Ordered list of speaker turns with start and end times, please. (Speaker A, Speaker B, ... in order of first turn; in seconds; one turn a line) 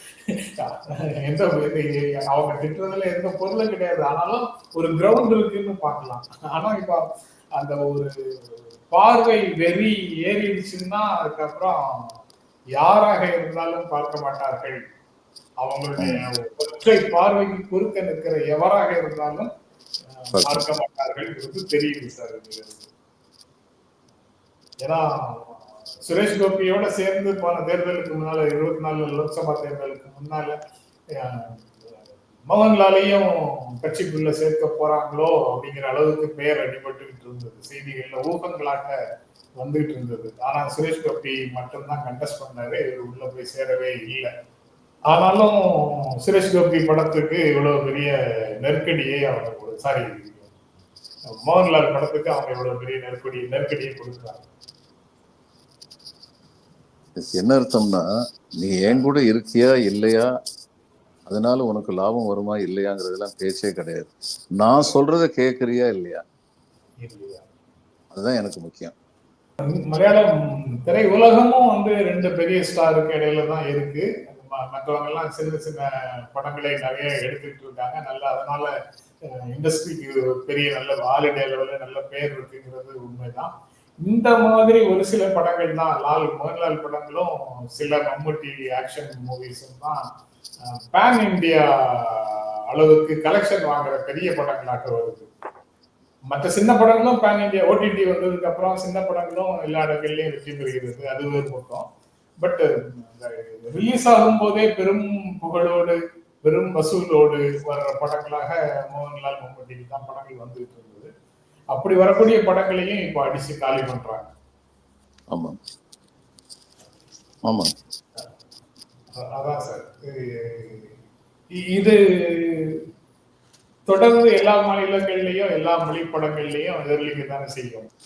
Speaker A: 0.3-12.2
Speaker A: 12.8-14.8
Speaker A: 15.6-19.5
Speaker B: 16.0-16.2
Speaker A: 20.2-22.9
Speaker B: 20.3-20.6
Speaker A: 24.8-30.6
Speaker A: 31.1-31.7
Speaker A: 32.5-39.0
Speaker A: 39.6-44.3
Speaker A: 45.1-50.5
Speaker A: 51.3-54.4
Speaker B: 57.1-60.3
Speaker B: 61.2-66.2
Speaker A: 67.0-67.5
Speaker B: 68.1-68.9
Speaker A: 69.6-78.7
Speaker A: 79.2-83.5
Speaker A: 84.0-90.0
Speaker A: 90.6-95.3
Speaker A: 96.3-101.9
Speaker A: 102.4-111.1
Speaker A: 111.7-114.3
Speaker B: 115.3-115.6
Speaker B: 117.5-117.7
Speaker A: 119.1-121.0
Speaker A: 121.5-122.8
Speaker A: 123.9-127.9